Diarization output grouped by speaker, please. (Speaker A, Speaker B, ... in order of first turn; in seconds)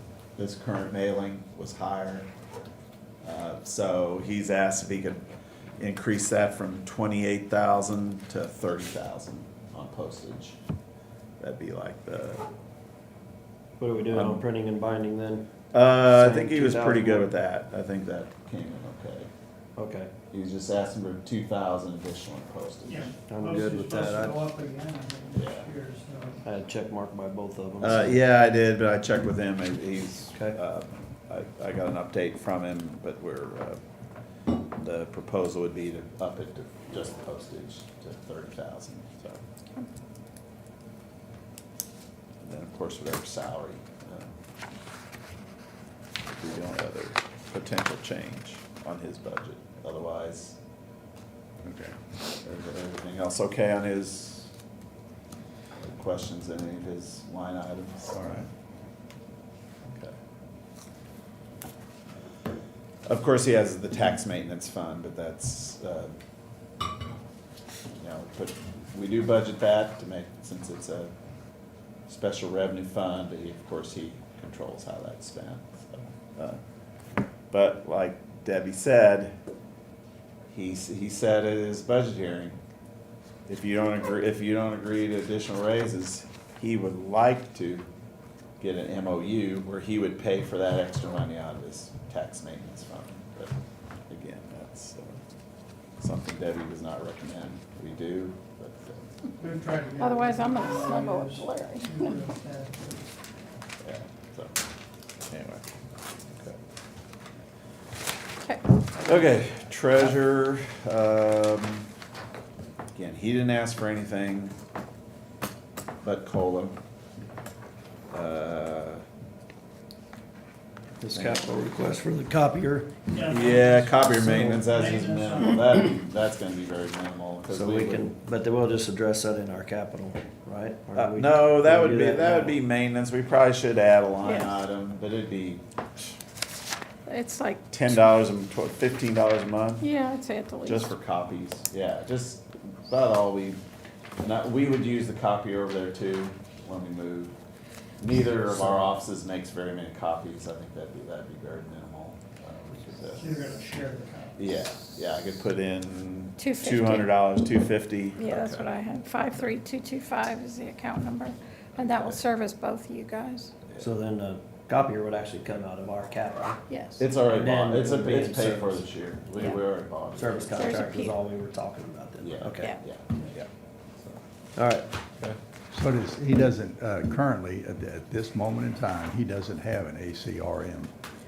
Speaker A: 0.4-2.3, 3.2-5.2, 5.8-10.6, 11.4-12.4, 14.1-14.4, 15.7-19.3, 20.3-23.1, 25.3-25.7, 27.8-33.8, 34.7-39.4, 42.4-44.3, 46.3-50.6, 52.4-54.5, 55.8-58.5, 63.1-66.2, 67.9-71.1, 72.1-76.6, 77.5-79.3, 80.5-82.6, 83.5-87.9, 88.6-93.5, 94.1-95.2, 96.0-99.1, 103.8-104.5, 105.3-105.7, 106.3-106.6, 109.0-111.9, 112.9-114.5, 116.0-116.8, 118.1-119.0, 121.1-121.4, 123.2-128.1, 130.9-136.2, 137.7-139.9, 140.7-143.6, 144.2-147.3, 148.0-153.5, 154.4-158.7, 161.8-162.2, 167.0-170.9, 172.2-173.5
Speaker B: 13.8-15.5, 16.1-17.3, 19.8-20.1, 23.3-24.4, 26.4-28.2, 121.0-123.0, 124.2-124.6, 127.5-132.6, 163.8-166.6, 167.2-168.8, 170.1-172.8, 174.6-174.9
Speaker C: 22.9-26.4, 99.4-103.1, 109.0-109.3, 123.1-125.9, 153.0-154.7
Speaker D: 51.6-52.0, 58.1-58.5, 175.7-180.9
Speaker E: 100.0-102.2, 134.2-134.6, 137.1-138.0, 139.8-140.9, 156.4-157.1, 158.2-163.5, 166.7-167.1, 170.5-171.2